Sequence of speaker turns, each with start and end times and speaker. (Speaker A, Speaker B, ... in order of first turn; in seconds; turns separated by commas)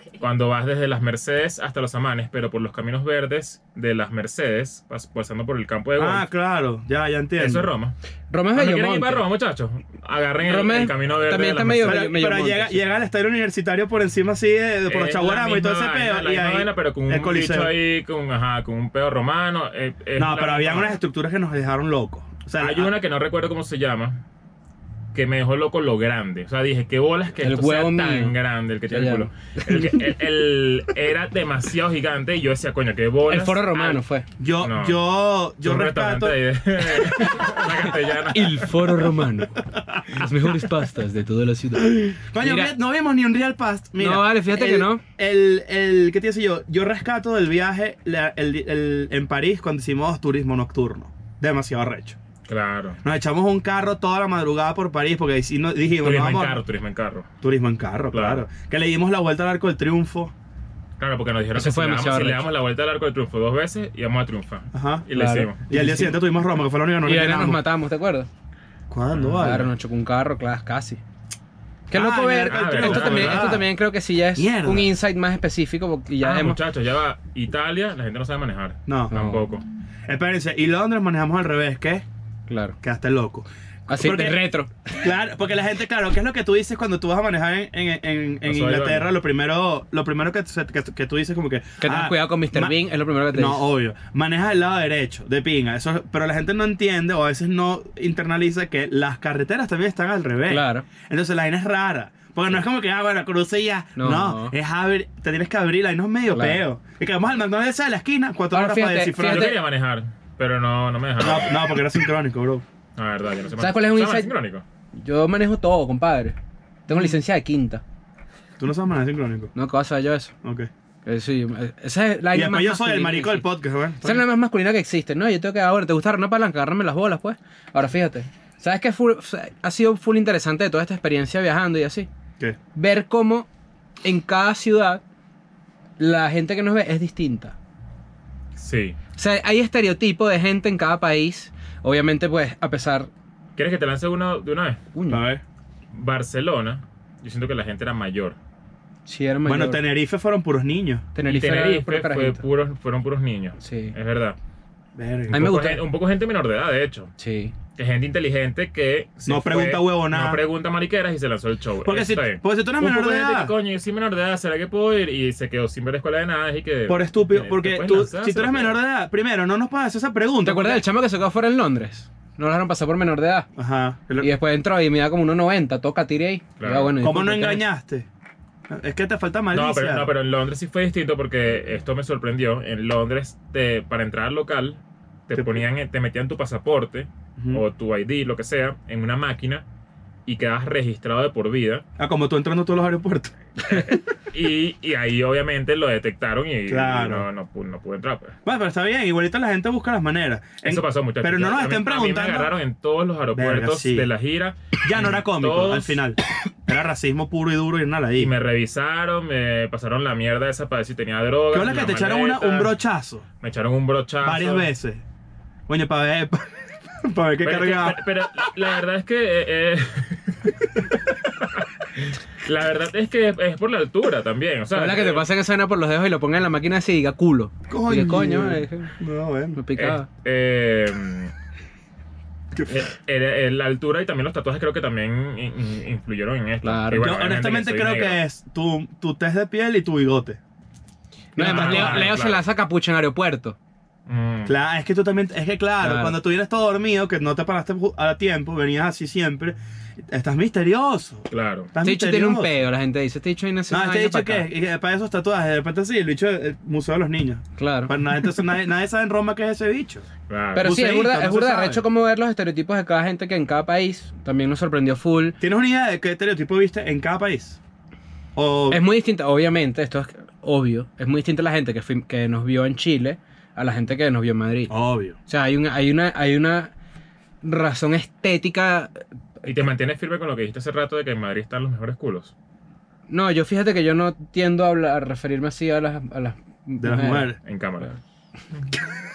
Speaker A: 0.2-6.3, Speaker B: 6.0-7.7, Speaker A: 7.4-8.0, Speaker C: 8.3-9.2, Speaker A: 8.5-12.1, Speaker C: 10.4-12.8, Speaker B: 11.8-17.7, Speaker A: 14.8-21.0, Speaker B: 20.2-22.9, Speaker A: 22.6-24.2, Speaker A: 25.1-34.0, Speaker C: 27.4-28.3, Speaker C: 28.9-30.0, Speaker C: 33.3-34.2, Speaker B: 34.4-36.4, Speaker A: 34.6-35.0, Speaker A: 35.6-39.0, Speaker C: 38.3-42.7, Speaker B: 39.5-40.2, Speaker B: 41.7-52.2, Speaker C: 44.0-45.0, Speaker A: 52.5-53.0, Speaker B: 53.0-56.6, Speaker A: 56.0-57.3, Speaker B: 57.4-60.3, Speaker A: 58.1-58.5, Speaker A: 61.0-65.7, Speaker C: 61.5-62.5, Speaker B: 64.7-65.0, Speaker C: 65.1-66.2, Speaker B: 65.7-67.6, Speaker C: 67.0-68.3, Speaker B: 68.9-69.7, Speaker A: 69.1-69.5, Speaker C: 69.4-71.0, Speaker C: 71.9-76.6, Speaker B: 71.9-73.7, Speaker A: 72.4-73.6, Speaker B: 74.3-74.9, Speaker A: 76.2-79.6, Speaker B: 78.9-79.1, Speaker C: 79.1-79.4, Speaker B: 80.1-82.0, Speaker C: 82.5-82.8, Speaker B: 82.8-84.4, Speaker C: 83.9-85.0, Speaker B: 85.0-92.8, Speaker A: 88.4-89.1, Speaker C: 91.8-93.6, Speaker B: 93.3-109.6, Speaker C: 100.5-100.8, Speaker C: 104.0-104.5, Speaker C: 106.3-106.6, Speaker C: 108.5-109.6, Speaker A: 109.3-111.6, Speaker B: 111.2-112.6, Speaker A: 113.0-114.6, Speaker C: 113.6-114.3, Speaker C: 114.9-116.3, Speaker C: 116.9-117.8, Speaker B: 118.6-119.5, Speaker C: 119.5-120.3, Speaker B: 120.4-120.7, Speaker C: 121.0-123.4, Speaker B: 122.3-124.2, Speaker C: 124.0-132.1, Speaker C: 132.7-133.5, Speaker C: 134.0-135.0, Speaker C: 136.0-137.6, Speaker A: 138.6-139.0, Speaker C: 139.2-143.1, Speaker A: 143.6-144.8, Speaker C: 144.9-145.2, Speaker B: 145.1-145.4, Speaker A: 145.9-148.4, Speaker C: 149.1-149.8, Speaker B: 149.4-151.1, Speaker C: 151.1-152.4, Speaker A: 151.2-154.4, Speaker C: 153.6-153.9, Speaker B: 154.9-155.5, Speaker A: 155.3-157.1, Speaker C: 155.3-155.8, Speaker C: 157.2-157.5, Speaker A: 157.7-168.8, Speaker B: 159.3-160.4, Speaker B: 161.8-163.5, Speaker B: 166.9-170.8, Speaker C: 170.4-173.5, Speaker B: 173.6-174.3, Speaker C: 174.2-177.6, Speaker A: 176.6-176.9, Speaker B: 177.0-178.1, Speaker B: 178.7-180.1, Speaker A: 179.5-189.6, Speaker B: 185.3-185.6, Speaker B: 187.4-187.6, Speaker A: 190.2-191.8, Speaker B: 192.0-193.9, Speaker A: 193.6-198.3, Speaker B: 196.7-197.3, Speaker B: 198.4-202.5, Speaker A: 200.6-206.0, Speaker B: 203.3-204.1, Speaker B: 204.8-208.3, Speaker A: 208.2-212.8, Speaker B: 211.5-213.2, Speaker A: 213.4-214.7, Speaker B: 214.2-215.0, Speaker B: 215.7-218.0, Speaker A: 217.4-225.3, Speaker C: 224.7-228.9, Speaker B: 227.7-229.6, Speaker C: 229.5-230.1, Speaker A: 229.8-231.3, Speaker B: 232.5-232.8, Speaker A: 232.7-238.2, Speaker C: 236.6-237.1, Speaker B: 237.0-240.4, Speaker C: 241.3-243.6, Speaker B: 241.4-242.1, Speaker A: 241.4-242.4, Speaker A: 244.1-244.5, Speaker B: 244.4-252.6, Speaker C: 245.8-246.2, Speaker A: 251.3-251.7, Speaker C: 251.8-254.5, Speaker B: 253.7-261.8, Speaker C: 257.6-258.3, Speaker A: 260.3-260.7, Speaker C: 260.5-265.4, Speaker B: 265.4-267.6, Speaker B: 268.3-268.8, Speaker C: 268.7-274.7, Speaker B: 274.7-275.1, Speaker C: 275.2-276.7, Speaker C: 277.4-279.5, Speaker A: 279.4-282.3, Speaker C: 283.1-287.3, Speaker B: 286.8-287.4, Speaker A: 287.4-288.0